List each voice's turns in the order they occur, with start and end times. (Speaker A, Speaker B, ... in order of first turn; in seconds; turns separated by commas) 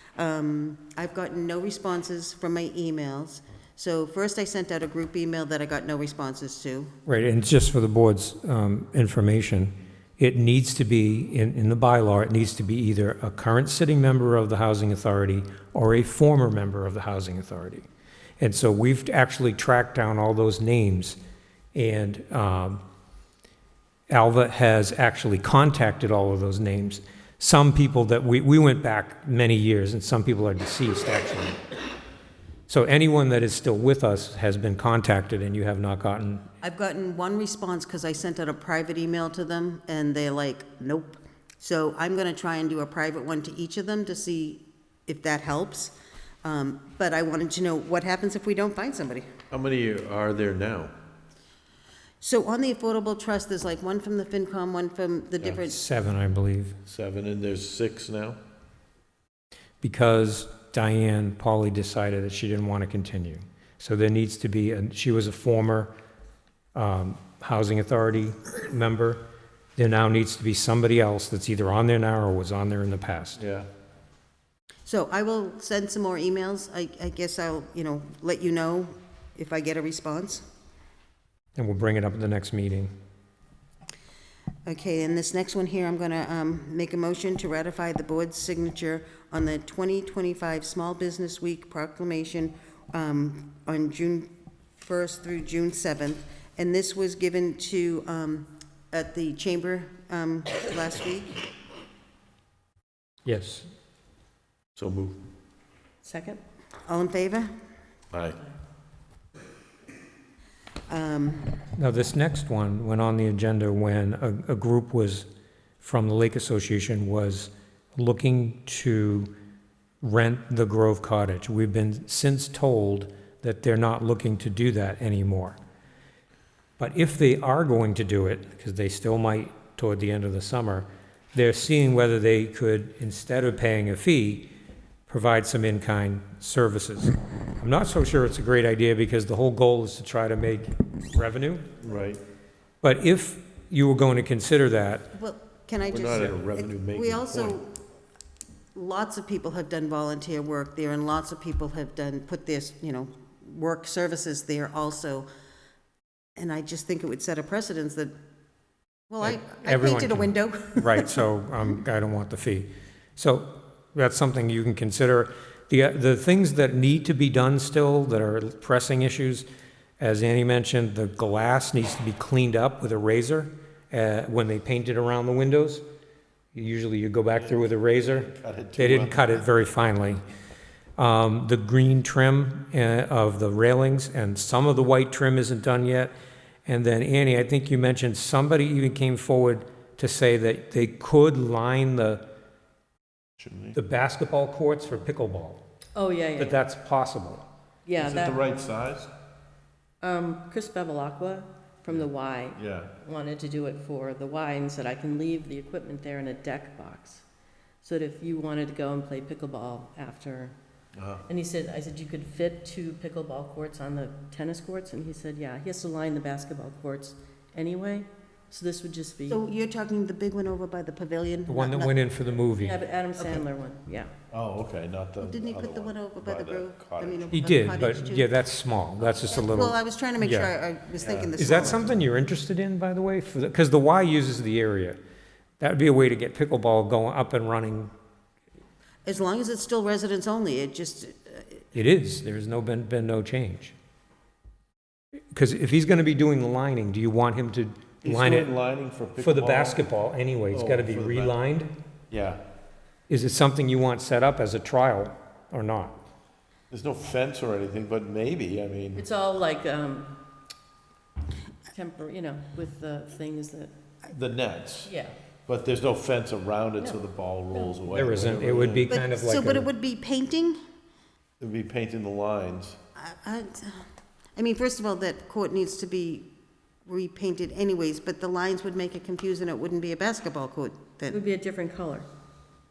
Speaker A: 0.2-6.9, Speaker B: 7.1-17.9, Speaker B: 18.4-21.2, Speaker B: 21.7-22.8, Speaker B: 24.1-31.6, Speaker B: 32.7-36.4, Speaker A: 36.6-49.3, Speaker C: 49.5-50.9, Speaker A: 52.2-55.8, Speaker B: 55.6-56.8, Speaker C: 56.9-58.4, Speaker B: 59.8-65.9, Speaker B: 66.8-69.2, Speaker B: 69.8-73.4, Speaker C: 73.4-73.7, Speaker A: 74.9-80.4, Speaker B: 81.6-82.9, Speaker A: 84.7-101.4, Speaker B: 103.2-103.7, Speaker C: 104.8-105.2, Speaker D: 106.0-106.4, Speaker A: 106.9-107.5, Speaker C: 108.1-108.4, Speaker A: 110.9-111.7, Speaker B: 111.8-115.3, Speaker B: 115.8-119.3, Speaker B: 120.0-125.6, Speaker B: 126.8-134.5, Speaker B: 135.1-141.7, Speaker C: 141.8-142.2, Speaker B: 142.8-145.1, Speaker A: 145.1-147.8, Speaker C: 145.9-147.6, Speaker A: 148.8-155.3, Speaker A: 156.4-158.1, Speaker A: 159.1-161.2, Speaker B: 159.2-169.5, Speaker B: 170.0-175.8, Speaker B: 176.5-180.2, Speaker C: 178.3-179.7, Speaker B: 181.0-186.1, Speaker B: 186.7-192.2, Speaker C: 193.4-193.8, Speaker B: 193.7-195.6, Speaker D: 195.9-196.6, Speaker B: 196.4-197.4, Speaker D: 197.9-198.4, Speaker C: 198.0-199.1, Speaker D: 200.0-207.2, Speaker C: 201.9-202.9, Speaker D: 207.8-210.5, Speaker C: 211.0-211.3, Speaker D: 211.3-219.4, Speaker A: 219.3-221.9, Speaker B: 221.5-222.8, Speaker D: 222.6-224.1, Speaker C: 224.3-227.8, Speaker A: 225.2-228.3, Speaker B: 227.3-230.5, Speaker A: 229.0-231.9, Speaker C: 231.0-231.9, Speaker B: 231.4-235.0, Speaker B: 235.6-237.9, Speaker A: 239.1-241.6, Speaker B: 241.7-243.7, Speaker B: 245.3-248.5, Speaker C: 248.0-249.8, Speaker B: 249.2-251.7, Speaker C: 250.5-251.4, Speaker C: 252.1-252.4, Speaker B: 253.1-256.0, Speaker C: 256.7-259.0, Speaker D: 259.0-260.1, Speaker D: 261.7-263.7, Speaker C: 264.1-264.9, Speaker D: 264.9-265.2, Speaker C: 265.5-268.9, Speaker B: 267.9-269.7, Speaker A: 268.9-270.6, Speaker C: 271.4-272.8, Speaker A: 273.0-276.3, Speaker A: 276.9-281.2, Speaker D: 281.1-282.1